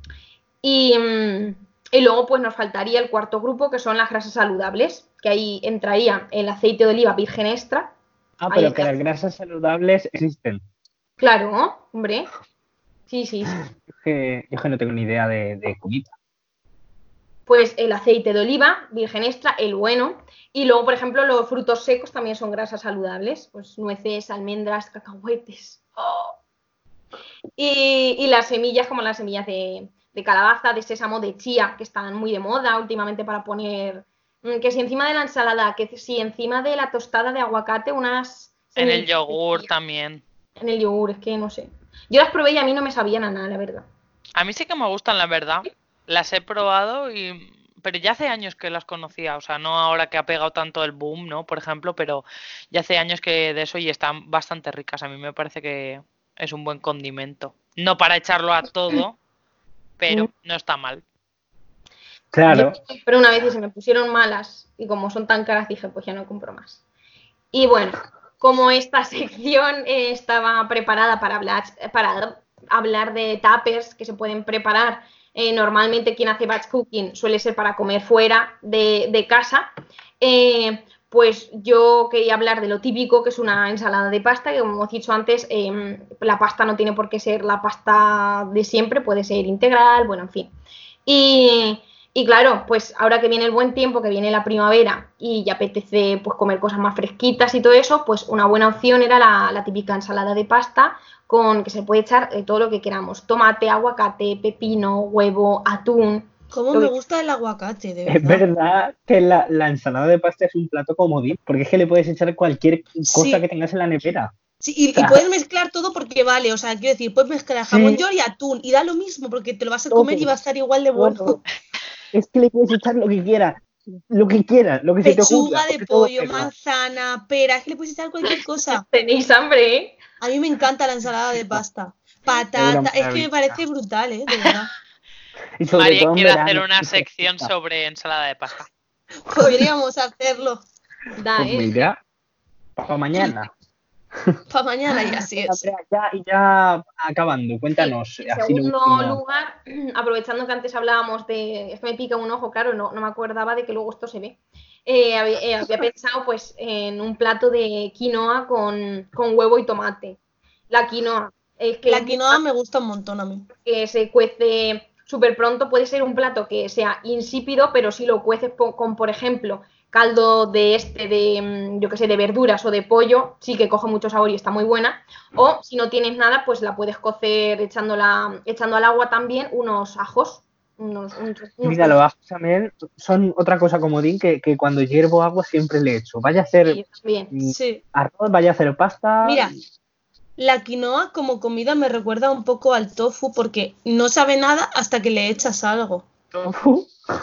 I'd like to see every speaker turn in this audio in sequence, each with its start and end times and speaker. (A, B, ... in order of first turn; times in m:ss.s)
0:00.6-0:07.9 A
0:08.4-0:10.6 B
0:08.5-0:08.9 A
0:11.2-0:12.3 A
0:13.1-0:13.6 A
0:13.7-0:16.1 B
0:17.5-0:26.4 A
0:27.6-0:39.7 A
0:38.8-0:40.2 C
0:40.6-0:43.9 A
0:44.4-0:59.2 C
1:00.0-1:01.0 C
1:02.3-1:02.8 B
1:02.5-1:06.8 A
1:07.5-1:19.7 A
1:20.2-1:30.5 A
1:31.1-1:46.9 A
1:46.5-1:48.4 D
1:48.1-1:54.3 B
1:53.1-1:53.4 D
1:54.6-2:01.4 D
1:55.0-1:55.2 B
1:57.7-1:58.0 B
1:59.9-2:00.3 B
2:01.0-2:01.4 B
2:02.1-2:06.5 B
2:05.0-2:08.8 D
2:08.7-2:10.0 A
2:10.2-2:14.7 D
2:12.6-2:13.6 B
2:15.6-2:17.5 B
2:15.7-2:18.7 C
2:19.3-2:20.6 D
2:19.4-2:19.7 A
2:21.2-2:21.8 A
2:21.4-2:22.0 B
2:22.8-2:23.5 B
2:24.5-2:25.7 D
2:25.4-2:29.2 B
2:27.8-2:40.2 A
2:40.7-2:42.4 A
2:41.9-2:43.5 D
2:43.6-3:02.0 A
3:01.6-3:09.5 B
3:06.7-3:07.3 A
3:07.5-3:07.8 D
3:09.2-3:09.5 D
3:10.4-3:16.1 D
3:16.3-3:16.9 B